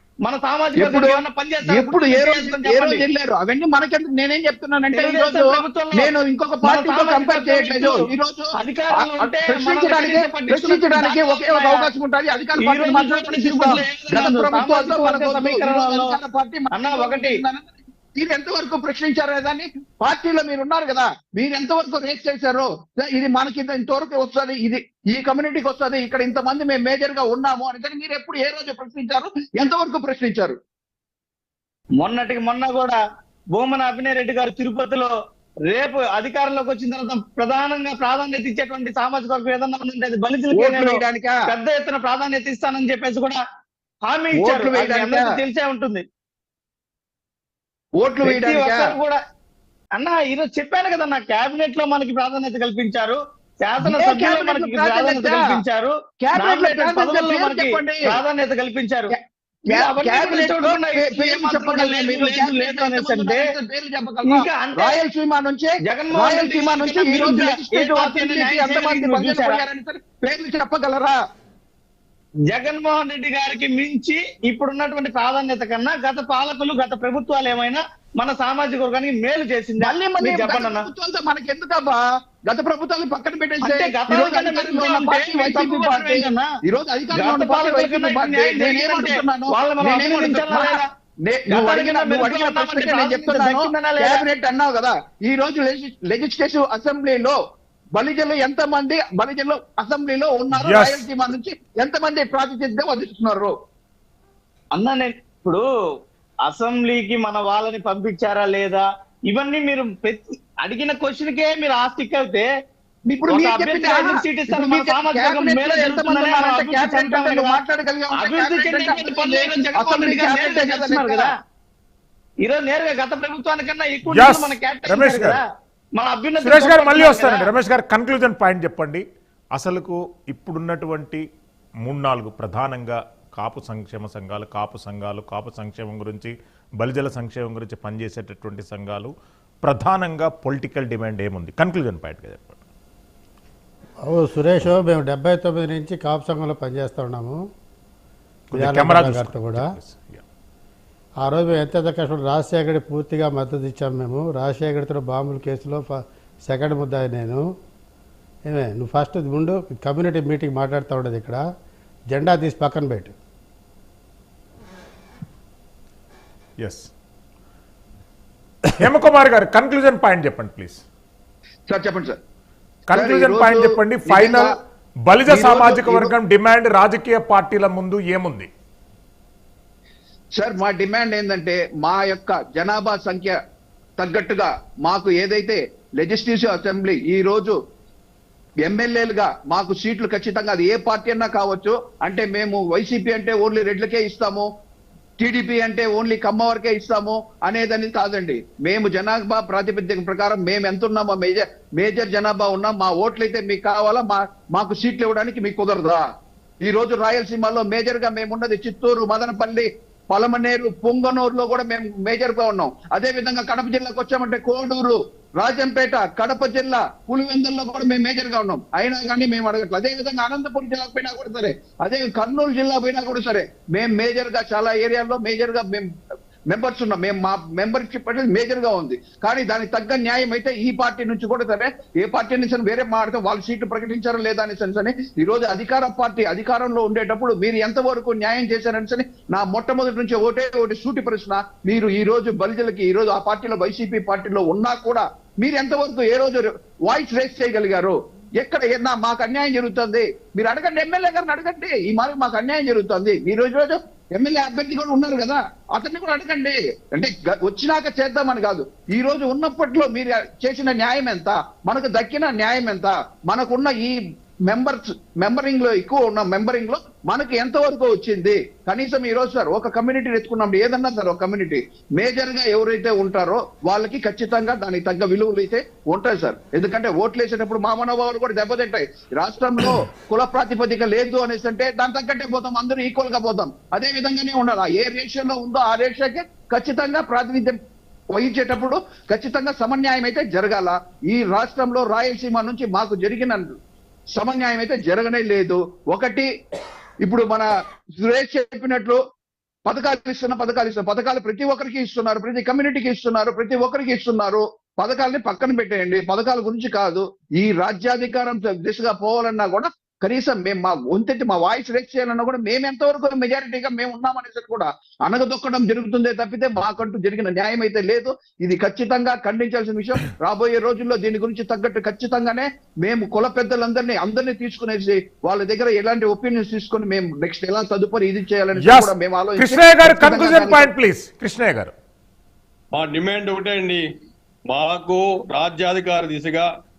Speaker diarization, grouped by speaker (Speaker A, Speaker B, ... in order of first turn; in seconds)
Speaker A: 0.2-3.0, 4.9-6.1, 6.6-8.0, 8.6-11.9, 12.6-16.2, 16.7-17.4, 32.0-33.0, 33.5-35.1, 35.7-43.4, 44.1-46.0, 48.3-49.2, 50.0-59.1, 59.7-63.4, 64.3-65.0, 65.8-69.6, 72.5-80.8, 83.6-86.5, 87.2-90.8, 91.5-94.2, 104.8-105.7, 106.5-112.5, 113.3-117.6, 118.2-121.3, 122.5-125.4, 126.0-127.5
Speaker B: 0.8-30.6, 40.5-41.4, 44.4-45.3, 48.0-49.0, 53.8-55.6, 56.2-58.1, 59.1-71.2, 79.8-97.4, 98.0-103.5, 113.1-121.3, 171.7-172.2, 172.9-174.5, 175.3-176.1, 180.4-183.4, 184.0-187.6, 188.7-194.5, 195.2-206.0, 206.6-225.9, 226.5-264.0, 264.5-287.6, 288.1-293.5, 294.2-296.3, 297.0-297.5, 298.0-299.0, 299.7-330.7
Speaker C: 100.5-101.0, 124.1-125.4, 126.4-131.2, 131.8-139.1, 139.6-142.6, 148.5-150.2, 166.6-166.9, 168.8-170.8, 172.9-174.5, 175.1-178.5, 328.6-331.7
Speaker D: 144.0-147.4, 148.5-149.6, 151.2-157.5, 158.5-161.5, 162.1-163.1
Speaker E: 332.7-333.8, 334.5-336.5